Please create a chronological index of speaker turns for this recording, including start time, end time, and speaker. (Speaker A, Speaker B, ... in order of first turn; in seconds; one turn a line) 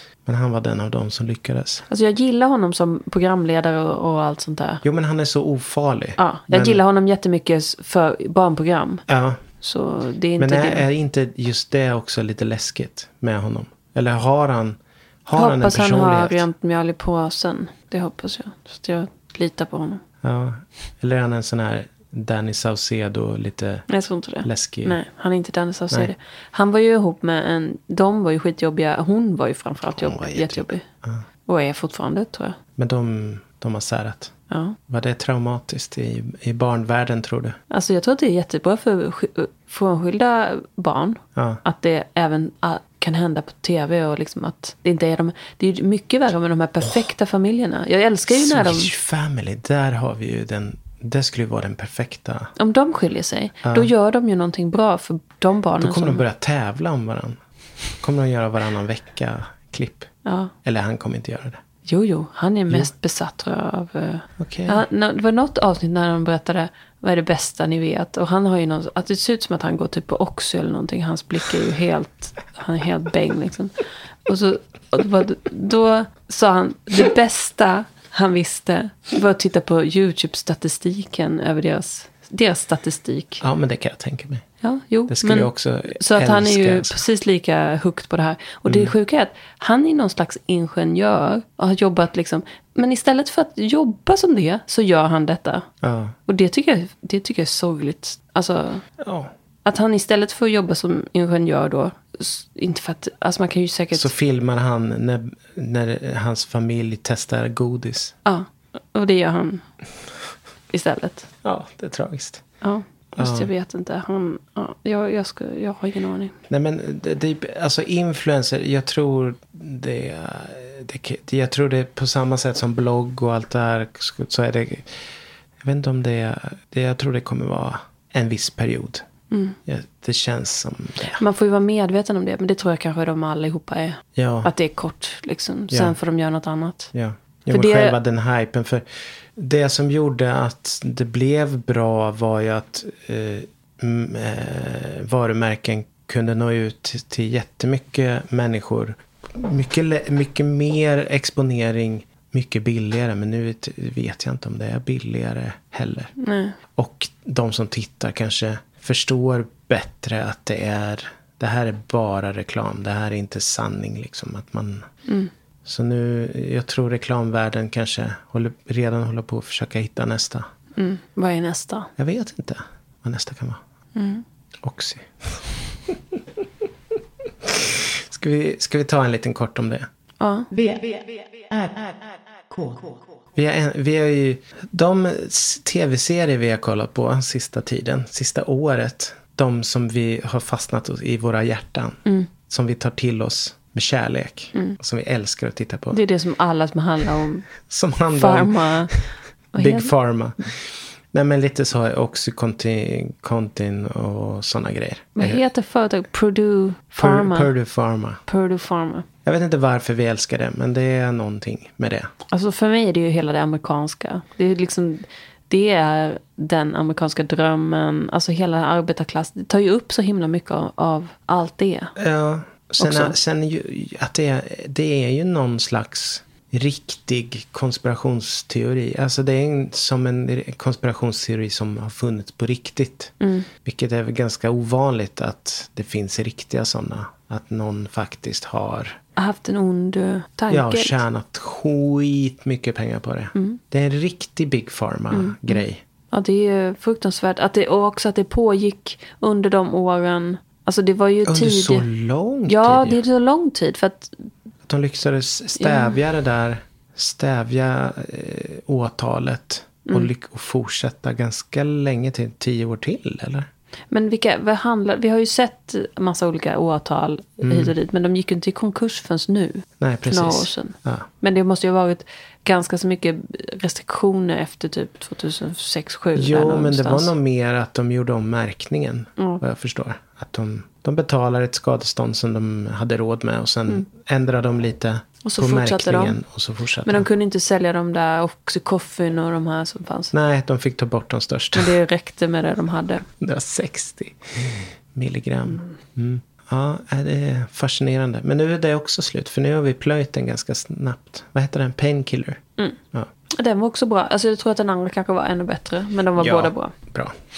Speaker A: 0.2-1.9
Speaker B: 1.9-4.8
Speaker A: 4.8-6.8
Speaker B: 6.2-9.0
Speaker A: 9.1-9.4
Speaker B: 9.6-10.8
Speaker A: 10.4-16.4
Speaker B: 15.3-20.0
Speaker A: 20.2-23.9
Speaker B: 23.9-30.9
Speaker A: 24.4-25.0
Speaker A: 29.9-31.2
Speaker B: 31.4-32.6
Speaker A: 32.8-34.3
Speaker B: 34.5-34.8
Speaker A: 34.9-37.6
Speaker B: 37.7-48.9
Speaker A: 41.4-41.6
Speaker A: 48.3-52.5
Speaker B: 52.5-56.2
Speaker A: 53.6-53.9
Speaker A: 55.8-57.4
Speaker A: 58.0-60.1
Speaker B: 60.2-60.5
Speaker A: 60.6-61.6
Speaker B: 61.8-83.4
Speaker A: 64.4-64.8
Speaker A: 83.4-84.4
Speaker B: 84.6-95.7
Speaker A: 85.1-87.0
Speaker A: 88.7-88.9
Speaker A: 95.8-96.1
Speaker B: 96.3-98.8
Speaker A: 99.0-99.3
Speaker B: 99.6-104.1
Speaker A: 103.9-108.1
Speaker B: 108.2-109.7
Speaker B: 110.7-111.3
Speaker A: 111.4-112.4
Speaker B: 112.6-116.3
Speaker A: 113.2-113.5
Speaker A: 116.5-129.1
Speaker B: 129.3-129.6
Speaker A: 129.7-131.2
Speaker B: 131.1-136.9
Speaker A: 134.2-134.5
Speaker A: 135.7-135.9
Speaker A: 136.9-156.1
Speaker B: 137.5-138.0
Speaker B: 156.2-156.6
Speaker A: 156.7-164.8
Speaker B: 165.1-165.3
Speaker A: 165.6-170.5
Speaker B: 170.8-171.9
Speaker A: 172.0-173.6
Speaker B: 173.9-174.2
Speaker A: 174.6-176.2
Speaker A: 177.4-179.9
Speaker B: 180.2-180.5
Speaker C: 180.5-183.2
Speaker A: 183.4-196.0
Speaker B: 195.9-197.5
Speaker A: 197.7-199.0
Speaker B: 198.1-199.0
Speaker B: 199.5-199.9
Speaker A: 199.6-205.4
Speaker B: 205.2-207.5
Speaker A: 207.0-208.2
Speaker B: 208.3-209.1
Speaker A: 209.2-212.1
Speaker B: 212.3-221.9
Speaker A: 221.9-239.0
Speaker B: 222.8-223.1
Speaker B: 233.2-233.5
Speaker B: 239.2-241.0
Speaker A: 240.5-245.8
Speaker B: 243.3-243.6
Speaker B: 245.1-251.8
Speaker A: 251.2-253.0
Speaker B: 252.4-254.2
Speaker A: 254.7-263.5
Speaker B: 255.6-255.9
Speaker B: 263.9-277.1
Speaker A: 267.4-267.7
Speaker A: 269.8-271.1
Speaker A: 276.1-287.1
Speaker B: 285.2-286.2
Speaker B: 286.8-290.1
Speaker A: 290.1-291.8
Speaker B: 291.5-293.1
Speaker A: 293.2-302.4
Speaker B: 295.5-295.7
Speaker B: 303.3-306.7
Speaker A: 306.2-307.1